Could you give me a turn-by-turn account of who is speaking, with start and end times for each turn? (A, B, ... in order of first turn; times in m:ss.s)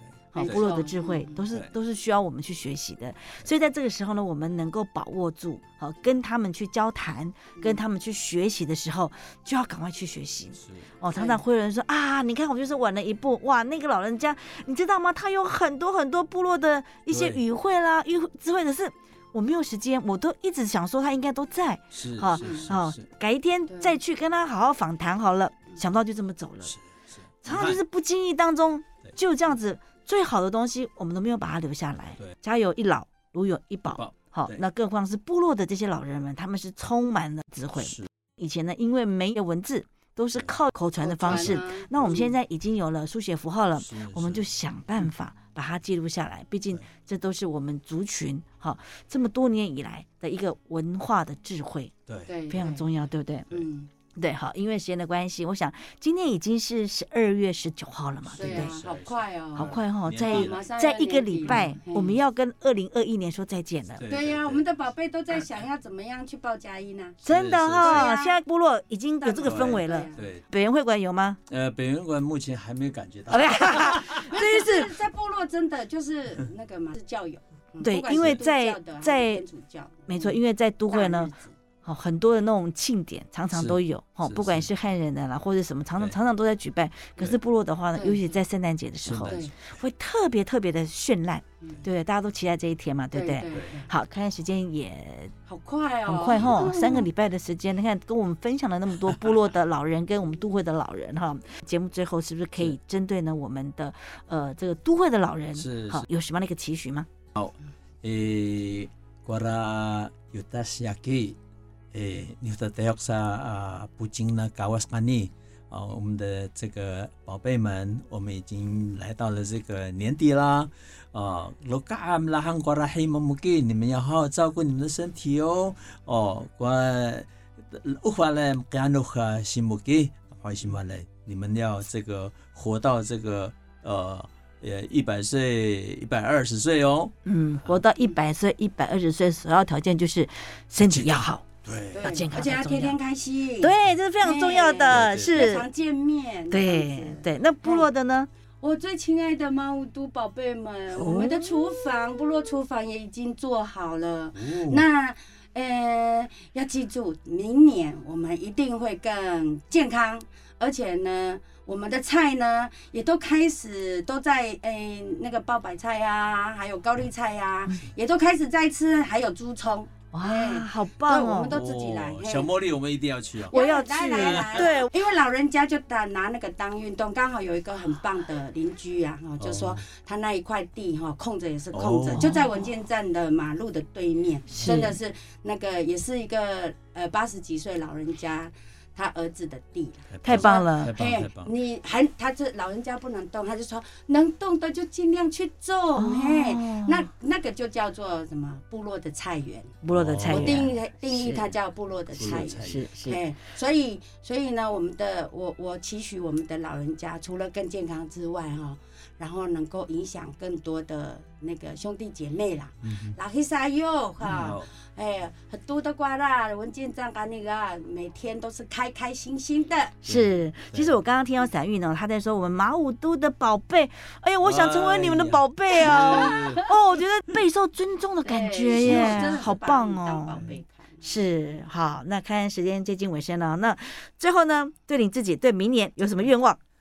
0:00.3-0:26.7 A
0:00.3-0:00.7 B
0:00.4-0:01.4 C
0:10.6-0:10.9 B
0:11.1-0:11.4 C
0:17.1-0:17.4 B
0:21.9-0:23.0 B
0:22.4-0:22.7 C
0:23.7-0:24.0 C
0:26.7-0:27.8 B
0:27.4-0:51.9 A
0:33.9-0:34.6 B
0:37.8-0:38.1 B
0:41.0-0:42.3 C
0:43.8-0:44.5 B
0:52.3-0:52.9 C
0:52.5-0:53.6 A
0:53.5-0:53.9 C
0:54.1-0:58.7 A
0:58.3-1:00.6 B
0:58.3-1:02.2 C
0:59.6-1:04.1 A
1:04.0-1:04.6 B
1:04.1-1:07.2 C
1:07.2-1:08.1 B
1:07.2-1:11.4 A
1:07.8-1:08.4 C
1:09.2-1:10.3 C
1:09.4-1:10.5 B
1:11.5-1:14.3 B
1:13.3-1:14.9 A
1:14.3-1:21.5 C
1:17.8-1:19.4 A
1:18.1-1:18.4 B
1:20.1-1:35.3 A
1:23.5-1:24.7 B
1:28.0-1:28.4 C
1:29.0-1:29.5 B
1:33.1-1:33.9 C
1:35.5-1:37.1 C
1:36.1-1:47.1 A
1:45.6-1:46.1 B
1:47.4-1:51.4 B
1:51.9-2:17.1 B
2:17.2-2:21.5 A
2:20.8-2:22.1 B
2:21.9-2:27.9 C
2:22.0-2:23.0 A
2:23.6-2:25.7 A
2:24.9-2:25.6 B
2:26.5-2:28.3 A
2:28.6-2:52.5 C
2:30.9-2:31.6 A
2:34.4-2:34.8 B
2:50.1-2:51.6 A
2:51.5-2:53.6 B
2:53.5-2:54.9 A
2:53.5-3:40.0 C
2:54.2-2:54.7 B
2:59.4-2:59.8 B
3:01.7-3:02.4 B
3:04.5-3:05.0 A
3:10.1-3:11.5 B
3:10.2-3:11.0 A
3:16.0-3:17.1 A
3:19.8-3:21.5 A
3:19.9-3:20.7 B
3:22.2-3:22.8 B
3:22.6-3:23.2 A
3:32.8-3:33.2 B
3:34.2-3:34.7 B
3:40.0-3:50.5 A
3:40.1-3:41.0 B
3:44.4-3:46.7 B
3:46.2-3:46.5 C
3:48.2-3:51.1 C
3:48.8-3:49.5 B
3:51.0-3:56.6 A